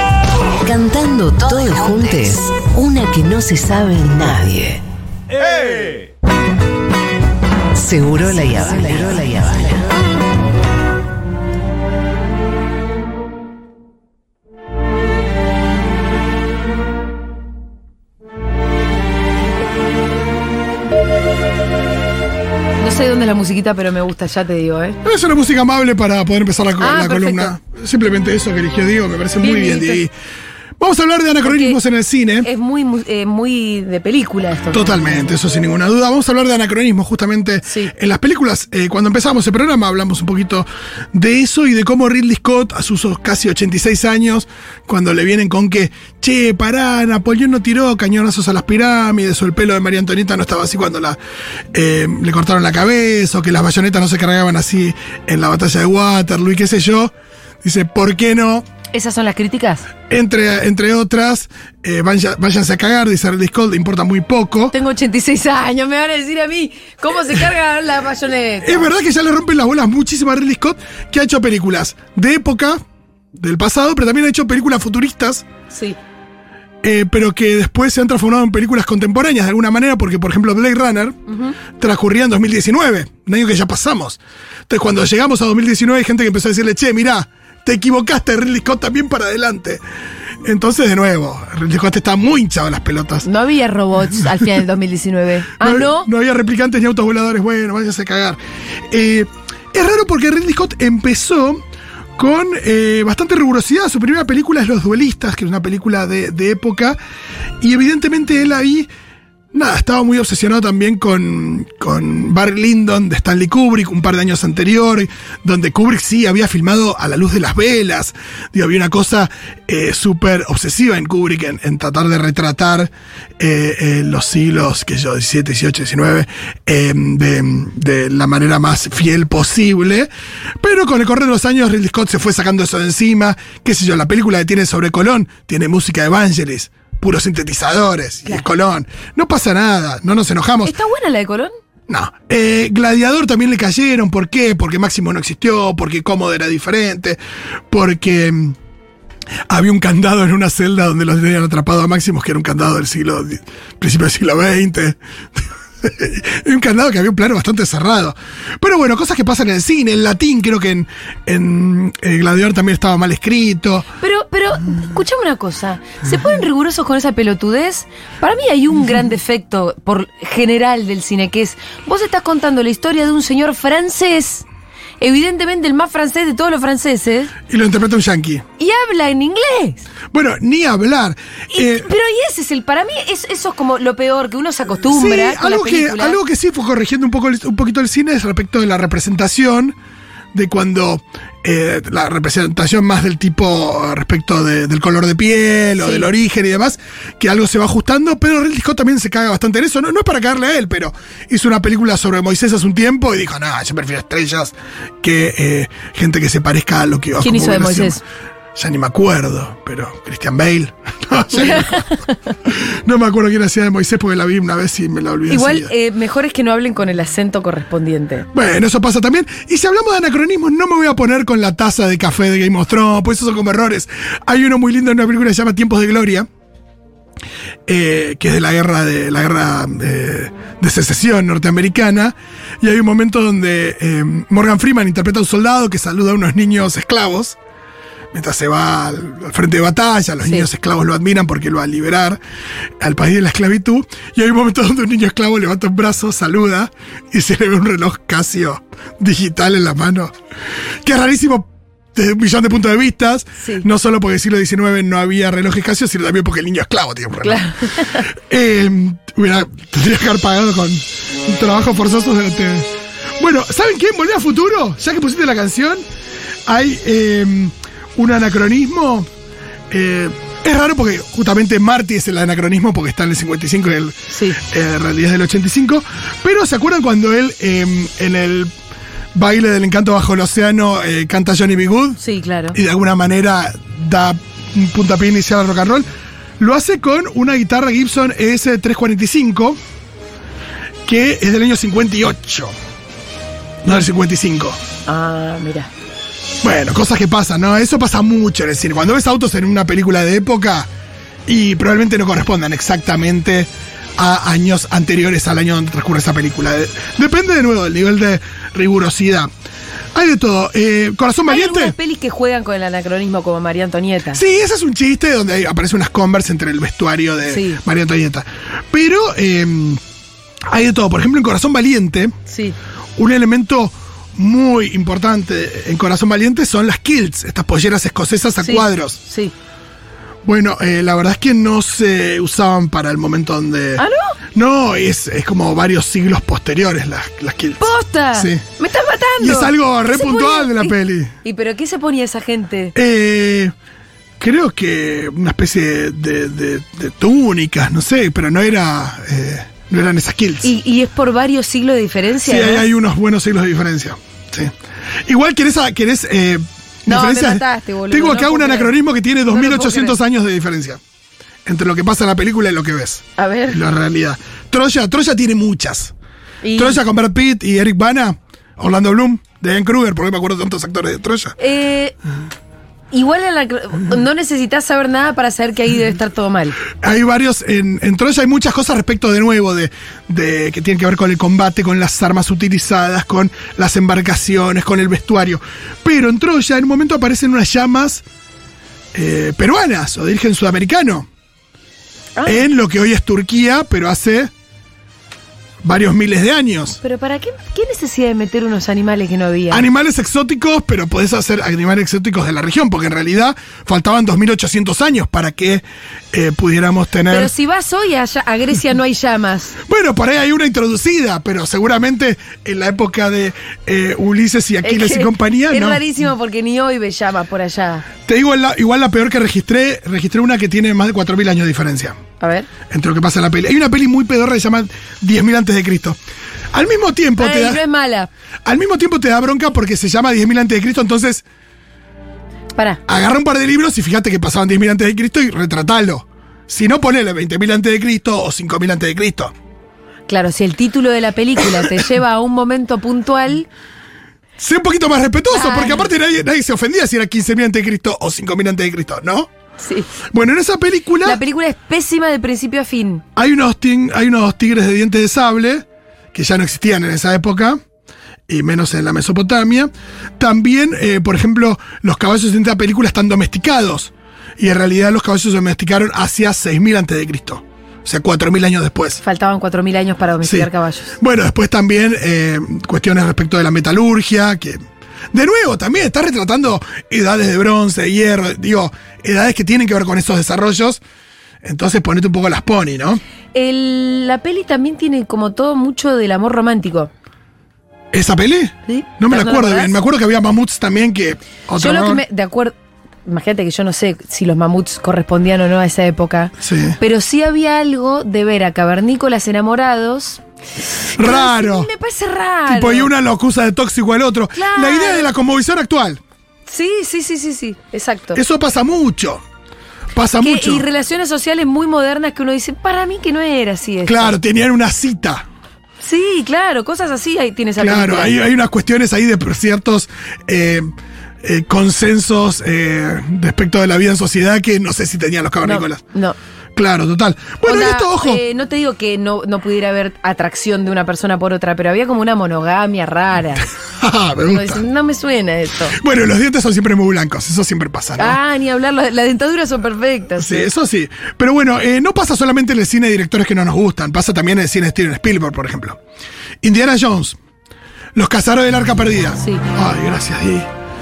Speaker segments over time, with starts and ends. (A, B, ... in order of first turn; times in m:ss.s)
0:00.6-0:04.8 A
0:07.7-0:09.8 A
0:22.8-0:25.0 B
0:25.0-0:30.1 C
0:26.8-0:27.5 B
0:29.4-0:30.0 B
0:30.8-0:32.5 C
0:31.4-0:31.8 B
0:32.4-0:35.0 B
0:34.7-0:51.2 C
0:37.6-0:37.9 B
0:51.7-0:58.6 C
0:58.9-0:59.9 B
1:00.1-1:04.7 C
1:04.7-1:08.9 B
1:08.6-1:12.8 C
1:13.3-1:15.4 C
1:15.7-1:16.0 B
1:16.8-1:21.2 C
1:21.3-1:21.5 B
1:21.8-1:29.8 C
1:30.4-1:33.3 C
1:33.2-1:36.1 B
1:35.6-1:38.4 C
1:38.9-1:41.6 C
1:42.2-1:47.0 C
1:47.6-1:48.9 C
1:49.5-2:10.1 C
2:10.6-2:20.8 C
2:20.6-2:21.5 B
2:21.9-2:27.2 C
2:27.7-2:28.6 C
2:29.5-2:35.0 C
2:35.8-2:43.9 C
2:44.0-2:54.4 B
2:55.0-2:57.3 B
2:57.5-2:58.4 C
2:58.6-2:59.8 B
3:00.1-3:01.9 C
3:01.5-3:06.2 B
3:04.8-3:09.7 C
3:10.3-3:28.0 C
3:15.8-3:16.1 B
3:27.2-3:28.0 B
3:28.6-3:35.7 C
3:31.4-3:32.0 B
3:35.3-3:38.3 B
3:38.3-3:46.3 C
3:47.7-3:57.4 C
3:58.1-4:02.2 C
4:00.2-4:00.5 B
4:02.8-4:10.1 C
4:10.8-4:25.8 C
4:17.2-4:18.0 B
4:26.5-4:29.1 C
4:29.7-4:38.5 C
4:34.1-4:34.4 B
4:39.1-4:42.0 C
4:42.0-4:42.6 B
4:42.5-4:45.8 C
4:46.4-4:49.6 C
4:50.8-4:52.5 C
4:53.6-4:54.6 C
4:54.8-4:55.7 B
4:56.4-5:00.7 C
5:01.3-5:09.3 C
5:09.9-5:11.7 C
5:11.2-5:14.2 B
5:14.1-5:19.8 C
5:17.3-5:17.6 B
5:20.5-5:22.1 C
5:22.3-5:22.6 B
5:23.0-5:29.0 C
5:28.4-5:29.3 B
5:30.2-5:38.4 C
5:33.8-5:34.2 B
5:37.6-5:42.7 B
5:39.2-5:41.1 C
5:42.7-5:43.5 C
5:44.2-5:50.5 C
5:50.4-5:52.7 B
5:52.2-5:54.5 C
5:55.0-6:00.8 C
5:56.9-6:00.0 B
6:01.4-6:05.9 C
6:03.2-6:03.6 B
6:06.4-6:06.8 B
6:06.5-6:11.4 C
6:11.4-6:12.0 B
6:12.9-6:16.6 B
6:16.8-6:28.0 C
6:28.9-6:31.1 C
6:32.2-6:32.4 B
6:32.2-6:34.3 C
6:35.6-6:36.8 C
6:36.8-6:39.6 B
6:39.5-6:47.3 C
6:47.1-6:49.6 B
6:49.6-6:55.8 C
6:54.6-6:57.9 B
6:58.1-7:02.0 C
7:02.2-7:02.5 B
7:02.7-7:06.0 C
7:06.5-7:07.6 C
7:07.2-7:08.1 B
7:08.4-7:11.2 C
7:12.5-7:12.8 B
7:12.9-7:19.3 C
7:20.1-7:23.5 B
7:24.4-7:29.3 C
7:25.3-7:25.9 B
7:29.6-7:29.9 B
7:30.1-7:31.2 C
7:31.0-7:33.0 B
7:33.2-7:37.6 C
7:38.3-7:49.0 C
7:49.0-7:51.0 B
7:50.2-7:54.6 C
7:55.1-8:00.8 C
8:01.4-8:03.0 C
8:03.3-8:06.9 B
8:07.9-8:12.0 C
8:08.7-8:09.7 B
8:11.6-8:20.2 B
8:16.4-8:16.8 C
8:20.8-8:22.9 B
8:21.0-8:21.7 C
8:22.4-8:26.0 C
8:24.3-8:25.1 B
8:26.5-8:28.2 B
8:28.1-8:29.2 C
8:29.9-8:30.6 C
8:30.2-8:34.2 B
8:33.8-8:35.2 C
8:35.8-8:38.2 B
8:37.6-8:40.7 C
8:41.2-8:45.8 C
8:45.4-8:46.2 B
8:46.6-8:48.2 C
8:47.4-8:53.5 B
8:53.8-8:54.6 C
8:54.2-8:55.8 B
8:55.7-8:58.2 C
8:58.0-9:00.5 B
9:00.2-9:05.8 C
9:06.4-9:07.2 C
9:07.9-9:10.5 C